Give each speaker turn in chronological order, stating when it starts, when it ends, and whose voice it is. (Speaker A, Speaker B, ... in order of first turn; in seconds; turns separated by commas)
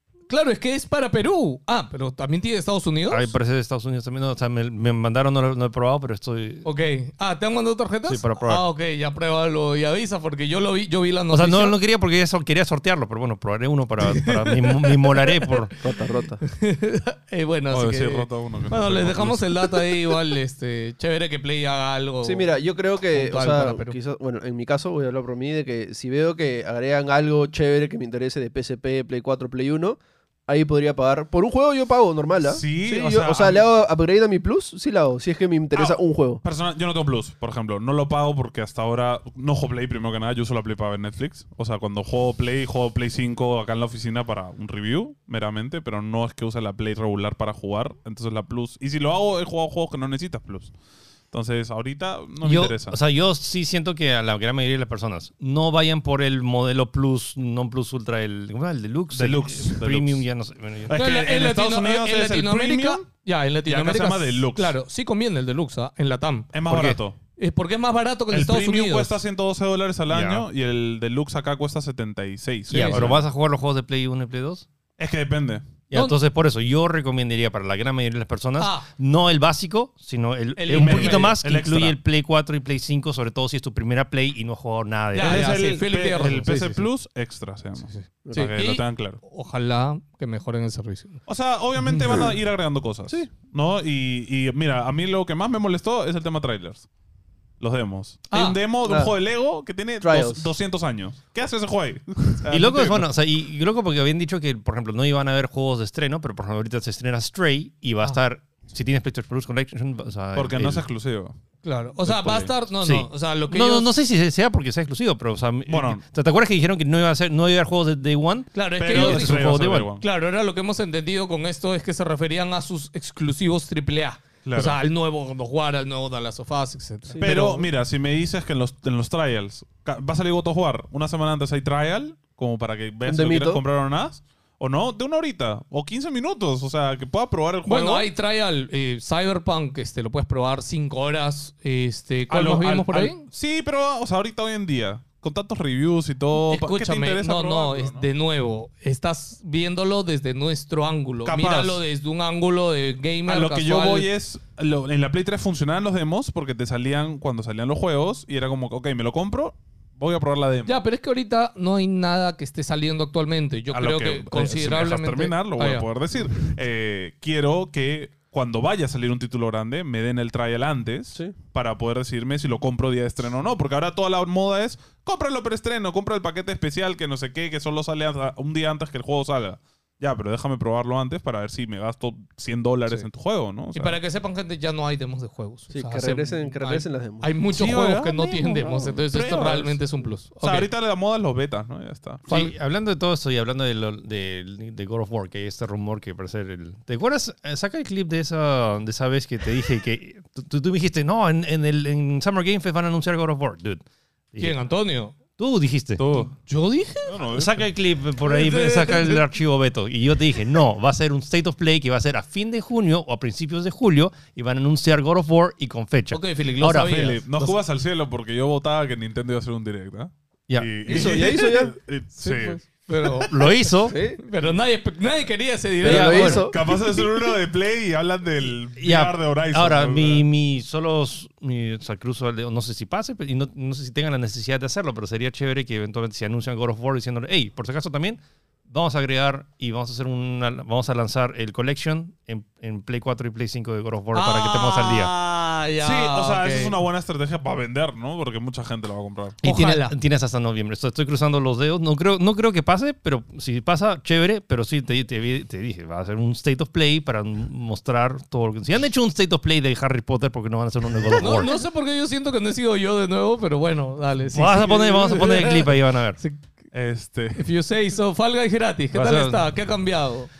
Speaker A: 0.3-3.3, Speaker B: 3.1-6.7, Speaker A: 6.6-11.8, Speaker B: 8.1-8.6, Speaker B: 11.3-15.8, Speaker A: 14.0-15.7, Speaker C: 15.8-16.4, Speaker A: 16.4-22.5, Speaker D: 17.7-19.8, Speaker C: 22.2-36.4, Speaker A: 23.1-23.9, Speaker D: 32.4-33.6, Speaker D: 35.7-50.7, Speaker D: 51.3-53.0, Speaker B: 52.4-61.0, Speaker D: 59.1-60.2, Speaker D: 60.9-63.0, Speaker A: 60.9-66.5, Speaker D: 63.6-64.8, Speaker D: 66.5-67.2, Speaker B: 66.7-67.0, Speaker A: 67.4-69.1, Speaker D: 68.3-73.2, Speaker B: 70.1-70.5, Speaker A: 72.7-73.2, Speaker B: 72.7-74.7, Speaker D: 75.0-75.7, Speaker B: 75.9-85.6, Speaker A: 78.6-78.8, Speaker A: 80.6-81.3, Speaker D: 80.7-82.0, Speaker A: 85.1-86.8, Speaker D: 85.2-89.2, Speaker A: 87.8-91.2, Speaker C: 88.2-88.5, Speaker D: 91.3-96.8, Speaker A: 91.8-92.2, Speaker D: 97.6-103.1, Speaker A: 98.3-98.6, Speaker C: 98.8-99.1, Speaker C: 100.0-100.5, Speaker B: 102.5-110.8, Speaker D: 110.3-111.3, Speaker A: 111.6-113.9, Speaker D: 112.0-112.5, Speaker B: 112.8-119.9, Speaker D: 115.7-116.0, Speaker A: 118.5-127.6, Speaker D: 118.8-120.0, Speaker D: 124.4-124.8, Speaker C: 127.1-127.7, Speaker D: 127.2-138.1, Speaker C: 133.1-133.6, Speaker A: 137.7-143.2, Speaker D: 142.3-148.1, Speaker A: 146.3-154.1, Speaker D: 151.2-151.8, Speaker D: 153.2-160.8, Speaker A: 160.7-165.9, Speaker D: 163.7-184.0, Speaker A: 183.7-190.7, Speaker C: 185.7-187.3, Speaker D: 187.5-189.8, Speaker D: 190.4-192.5, Speaker B: 192.3-204.6, Speaker A: 204.4-205.1, Speaker B: 205.4-206.1, Speaker D: 206.0-206.3, Speaker A: 206.3-207.2, Speaker D: 207.0-207.6, Speaker B: 207.3-217.2, Speaker A: 208.2-209.2, Speaker A: 216.1-217.5, Speaker D: 216.7-222.6, Speaker C: 220.8-221.7, Speaker A: 222.2-226.5, Speaker B: 223.2-224.0, Speaker C: 223.9-224.2, Speaker C: 225.8-226.6, Speaker B: 225.8-226.4, Speaker D: 225.9-230.2, Speaker B: 228.8-245.1, Speaker A: 244.1-246.8, Speaker D: 245.8-249.4, Speaker A: 249.4-249.9, Speaker B: 249.4-261.6, Speaker A: 261.1-266.4, Speaker B: 264.3-266.2, Speaker D: 266.7-267.4, Speaker A: 267.3-270.3, Speaker B: 268.9-269.5